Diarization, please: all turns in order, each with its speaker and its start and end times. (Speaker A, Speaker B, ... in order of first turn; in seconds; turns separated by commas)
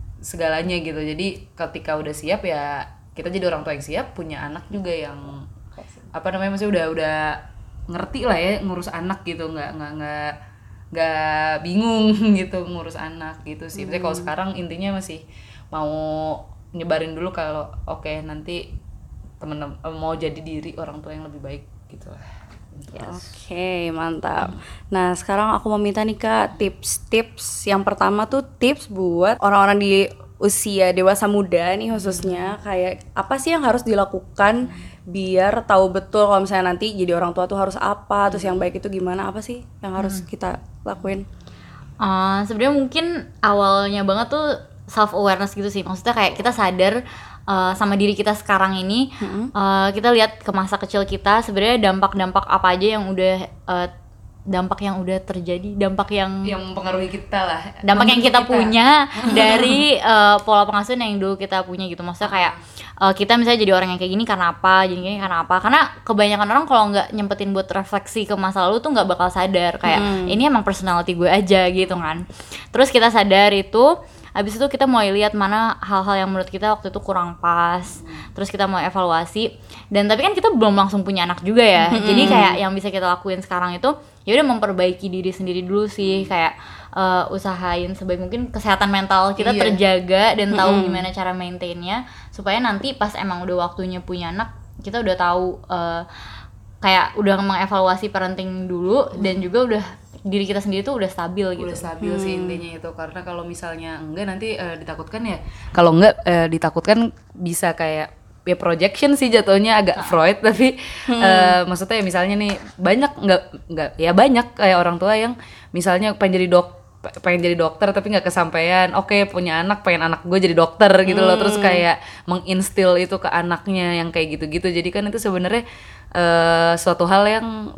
Speaker A: 0.2-5.5, Speaker A: 6.1-10.4, Speaker A: 10.9-18.6, Speaker B: 13.8-14.3, Speaker A: 19.4-23.3, Speaker B: 23.0-41.2, Speaker C: 42.0-53.9, Speaker B: 49.2-49.5, Speaker C: 54.5-56.5, Speaker A: 56.5-59.8, Speaker C: 57.9-96.1, Speaker A: 62.2-62.6, Speaker B: 69.9-70.4, Speaker B: 81.9-82.6, Speaker A: 81.9-82.4, Speaker A: 86.0-86.3, Speaker A: 89.4-89.8, Speaker B: 90.5-91.0, Speaker C: 96.8-101.9, Speaker A: 101.6-125.6, Speaker B: 102.0-102.6, Speaker B: 111.1-111.6, Speaker B: 121.0-121.8, Speaker A: 126.2-127.7